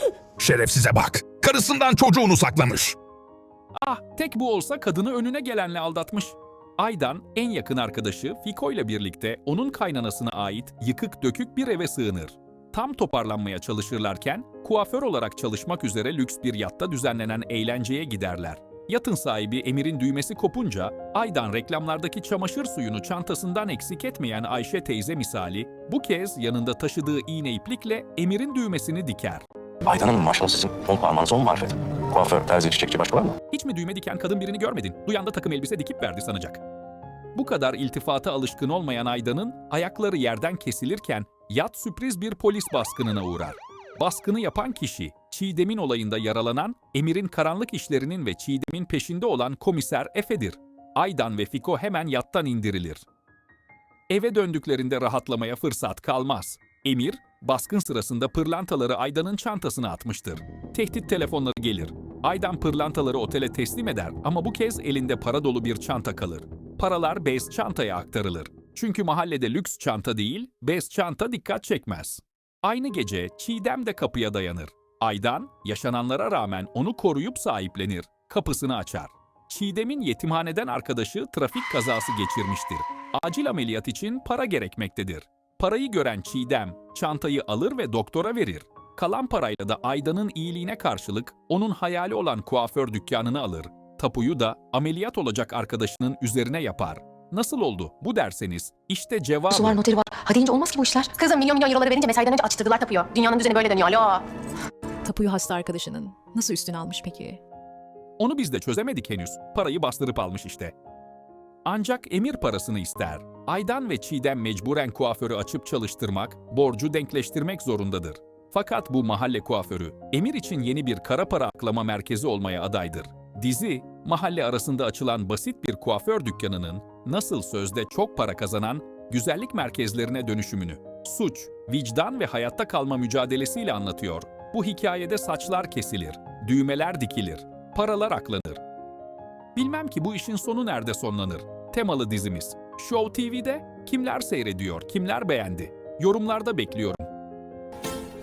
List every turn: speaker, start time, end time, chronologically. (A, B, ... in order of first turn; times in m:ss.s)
0:00.4-0:03.0 A
0:03.8-0:29.4 B
0:29.8-0:33.4 C
0:33.5-0:36.6 B
0:37.3-0:53.0 B
0:54.1-1:39.8 B
1:39.5-1:44.2 D
1:45.0-1:47.4 E
1:48.2-1:50.7 B
1:51.6-2:18.6 B
2:19.5-2:27.1 B